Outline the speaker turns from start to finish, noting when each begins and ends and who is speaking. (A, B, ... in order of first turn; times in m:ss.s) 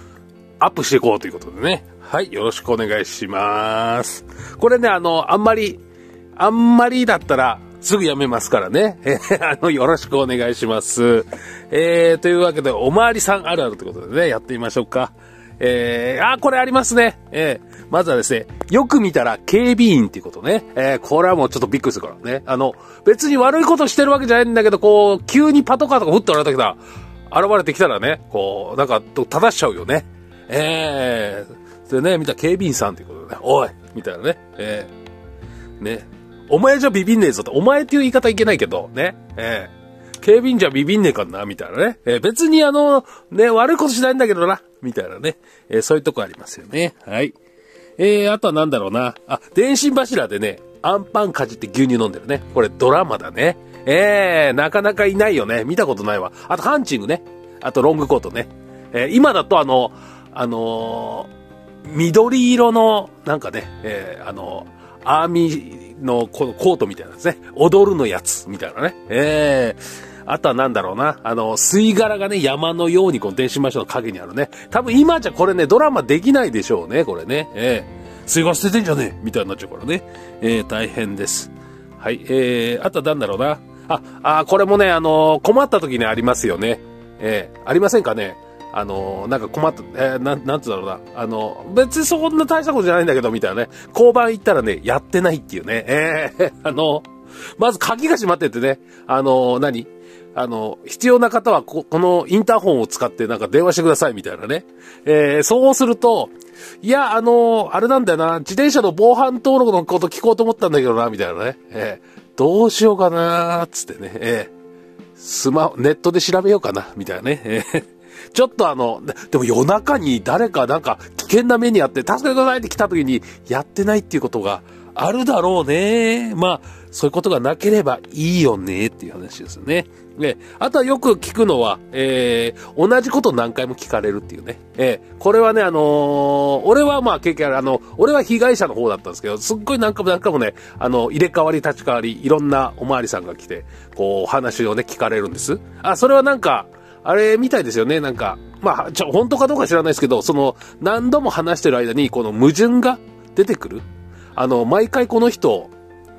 0:00.6-0:05.8 A
0:06.4-0:34.9 A
0:35.8-0:47.4 A
0:48.0-1:01.3 A
1:01.8-1:54.5 A
1:55.2-2:33.8 A
2:34.4-2:35.7 A